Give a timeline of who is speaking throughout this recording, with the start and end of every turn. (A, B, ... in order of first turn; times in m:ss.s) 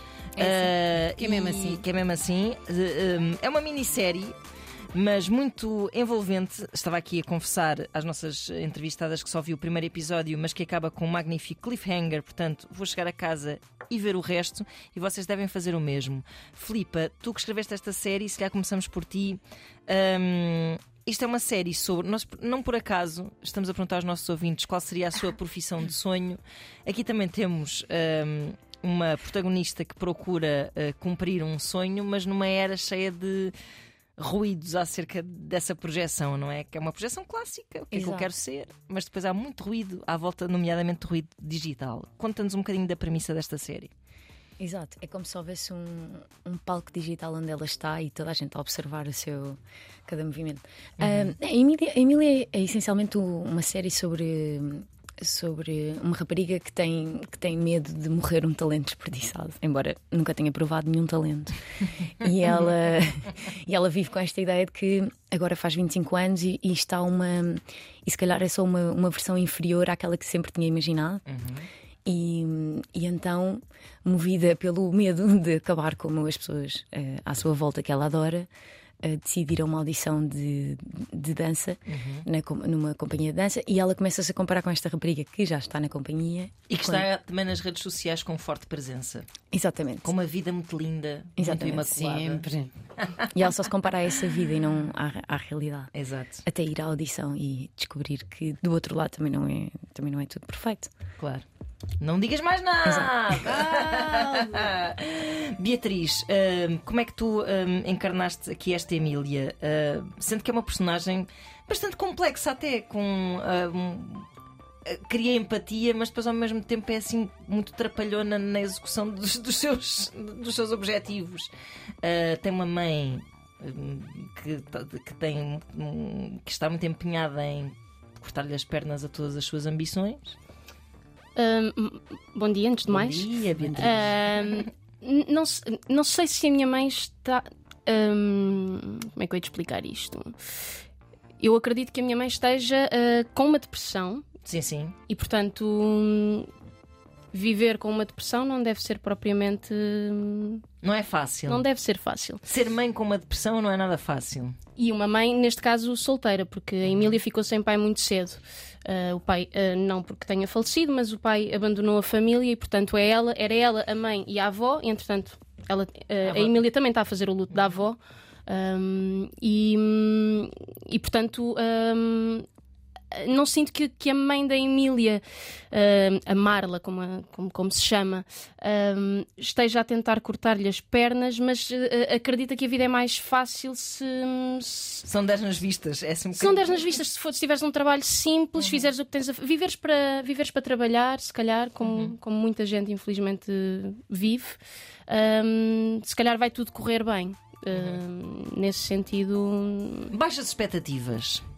0:00.4-0:01.8 A
0:00.4-0:04.4 B
0:04.9-0:33.5 B
0:34.2-0:43.9 B
0:37.9-0:38.3 C
0:44.6-1:01.6 C
0:51.0-0:51.3 B
1:02.2-1:11.2 C
1:11.3-1:11.7 B
1:12.0-1:18.5 C
1:19.0-1:27.0 C
1:21.9-1:22.2 B
1:26.7-1:29.3 B
1:29.5-1:30.1 C
1:30.0-1:32.4 B
1:31.4-1:31.9 C
1:31.9-1:32.7 A
1:33.3-1:35.9 C
1:35.9-1:36.4 B
1:36.4-1:40.9 C
1:41.2-1:41.4 B
1:42.0-1:54.3 B
1:42.8-1:43.6 C
1:43.6-1:44.7 A
1:54.8-2:01.5 B
2:02.0-2:10.4 B
2:11.4-2:20.4 D
2:12.9-2:14.6 B
2:13.6-2:14.1 A
2:21.4-2:24.2 D
2:24.4-2:25.0 B
2:25.1-2:26.5 D
2:27.3-2:30.6 D
2:30.8-2:31.6 B
2:31.5-2:32.4 D
2:32.4-2:34.6 B
2:34.8-2:52.4 D
2:36.8-2:37.2 B
2:46.2-2:46.6 B
2:47.5-2:47.8 B
2:53.1-3:05.0 D
3:05.0-3:06.9 B
3:06.3-3:20.1 D
3:08.6-3:08.8 B
3:11.8-3:12.1 B
3:17.7-3:18.0 B
3:20.1-3:21.4 B